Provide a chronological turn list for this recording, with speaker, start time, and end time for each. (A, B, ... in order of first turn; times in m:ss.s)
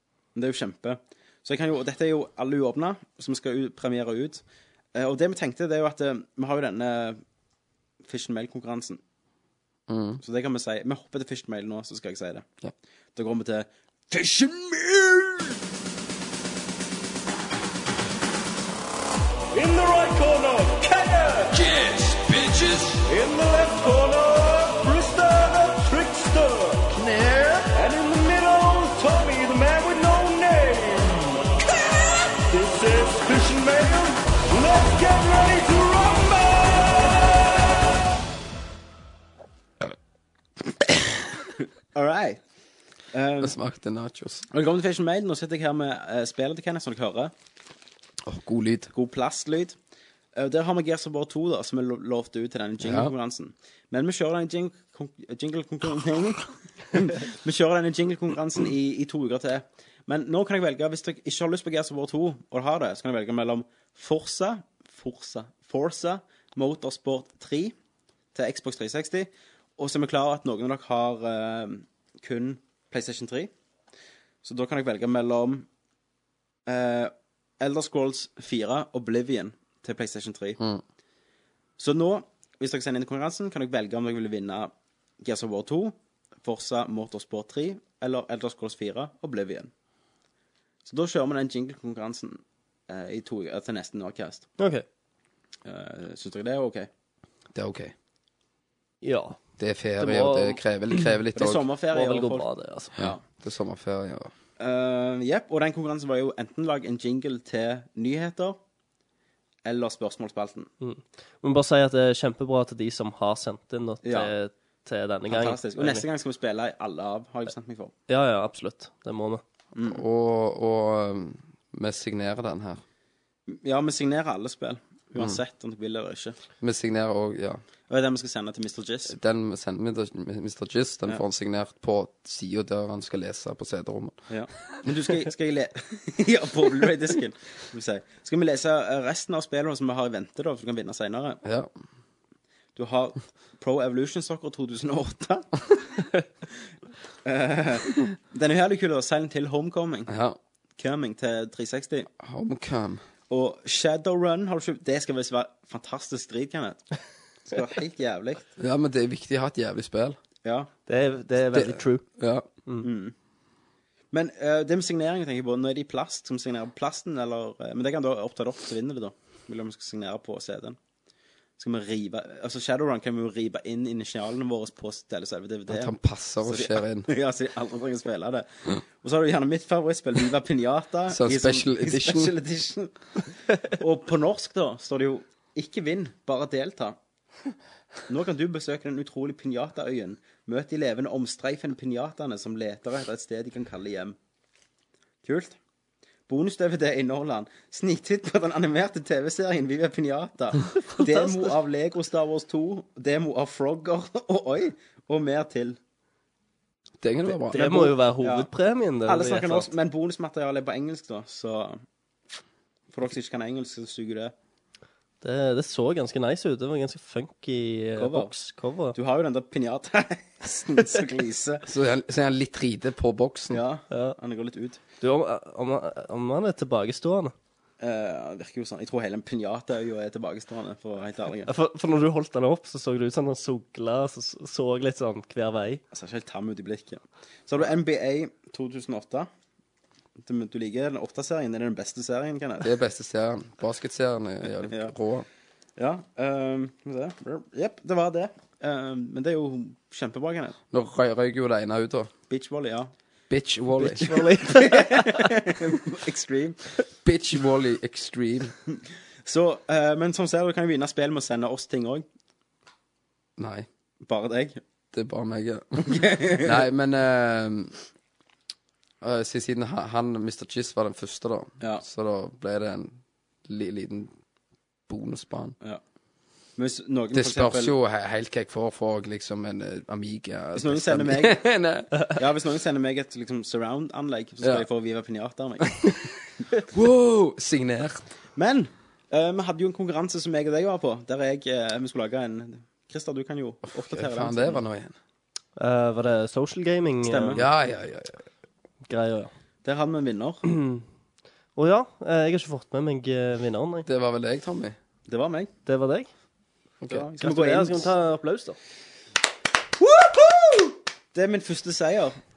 0:00.3-0:04.4 A
0:04.9-0:07.2 A
0:08.0-0:09.0 A
0:09.9-0:10.2 B
0:10.2-0:12.4 A
0:13.1-0:15.5 A
0:19.5-0:21.6 A
0:21.6-0:23.0 B
0:23.0-0:26.9 A
0:27.7-0:31.5 A
0:32.5-0:37.4 A
0:41.9-0:42.4 A
0:43.1-0:43.5 A
0:43.4-0:44.4 B
0:44.5-0:47.3 A
0:48.2-0:48.9 B
0:48.9-0:49.8 A
0:50.4-1:07.7 A
0:52.8-0:53.1 B
1:08.3-1:13.5 A
1:14.4-1:15.6 A
1:16.7-1:20.6 A
1:21.8-1:24.7 A
1:25.2-1:29.7 A
1:30.8-1:34.5 A
1:34.6-1:34.8 C
1:35.6-1:36.9 A
1:37.5-1:37.9 B
1:39.0-1:39.4 C
1:39.6-1:41.6 B
1:40.0-1:40.6 C
1:41.3-1:43.2 A
1:41.9-1:42.9 C
1:43.0-1:44.3 B
1:44.6-1:48.6 A
1:49.6-1:50.7 A
1:50.8-1:56.0 C
1:54.0-1:54.3 A
1:55.3-1:57.9 A
1:58.1-1:59.4 C
1:59.7-2:00.0 A
1:59.8-2:02.8 B
2:03.5-2:06.4 A
2:06.6-2:07.6 B
2:07.9-2:09.2 A
2:09.1-2:14.2 B
2:14.3-2:21.4 A
2:21.4-2:21.7 B
2:22.8-2:25.8 A
2:27.2-2:30.1 A
2:30.1-2:30.4 B
2:30.8-2:32.1 A
2:32.2-2:33.0 B
2:33.3-2:36.9 A
2:37.4-2:38.4 A
2:38.6-2:40.2 B
2:40.4-2:40.7 A
2:40.9-2:42.0 C
2:41.5-2:42.4 B
2:42.8-2:43.1 A
2:44.1-2:50.8 A
2:51.6-3:07.0 A
2:55.7-2:57.1 B
3:01.1-3:02.3 B
3:08.1-3:14.2 A
3:15.2-3:15.6 A
3:16.3-3:25.8 A
3:20.9-3:21.5 C
3:27.0-3:27.6 B
3:27.5-3:28.5 A
3:27.5-3:29.7 C
3:29.0-3:31.8 A
3:32.9-3:34.3 A
3:35.2-3:38.9 C
3:38.0-3:38.3 A
3:38.9-3:41.6 A
3:41.6-3:43.6 B
3:43.5-3:44.8 A
3:43.9-3:44.2 C
3:45.0-3:47.3 C
3:47.8-3:51.5 A
3:51.5-3:55.8 C
3:55.9-3:59.3 A
4:00.2-4:02.7 A
4:02.6-4:05.2 B
4:04.6-4:04.9 A
4:05.8-4:10.6 A
4:10.7-4:12.1 B
4:12.3-4:12.9 A
4:13.3-4:14.2 B
4:13.8-4:15.3 C
4:14.4-4:16.7 A
4:17.0-4:18.5 B
4:19.2-4:22.0 A
4:23.4-4:23.7 B
4:24.0-4:24.6 A
4:24.9-4:27.7 B
4:25.8-4:26.6 A
4:29.0-4:34.1 B
4:34.9-4:35.6 B
4:36.6-4:37.8 A
4:37.1-4:42.1 B
4:40.5-4:41.4 A
4:42.1-4:46.0 A
4:46.7-4:48.0 B
4:48.4-4:54.6 A
4:53.7-4:54.9 B
4:55.6-4:57.4 C
4:57.0-4:57.5 A
4:57.3-4:58.2 B
4:58.9-4:59.3 C
4:59.6-5:00.4 A
5:00.4-5:00.8 C
5:01.6-5:03.9 C
5:03.8-5:04.8 B
5:05.1-5:05.5 A
5:05.6-5:06.1 C
5:06.8-5:07.1 B
5:06.9-5:07.9 A
5:07.2-5:08.6 C
5:09.8-5:12.2 A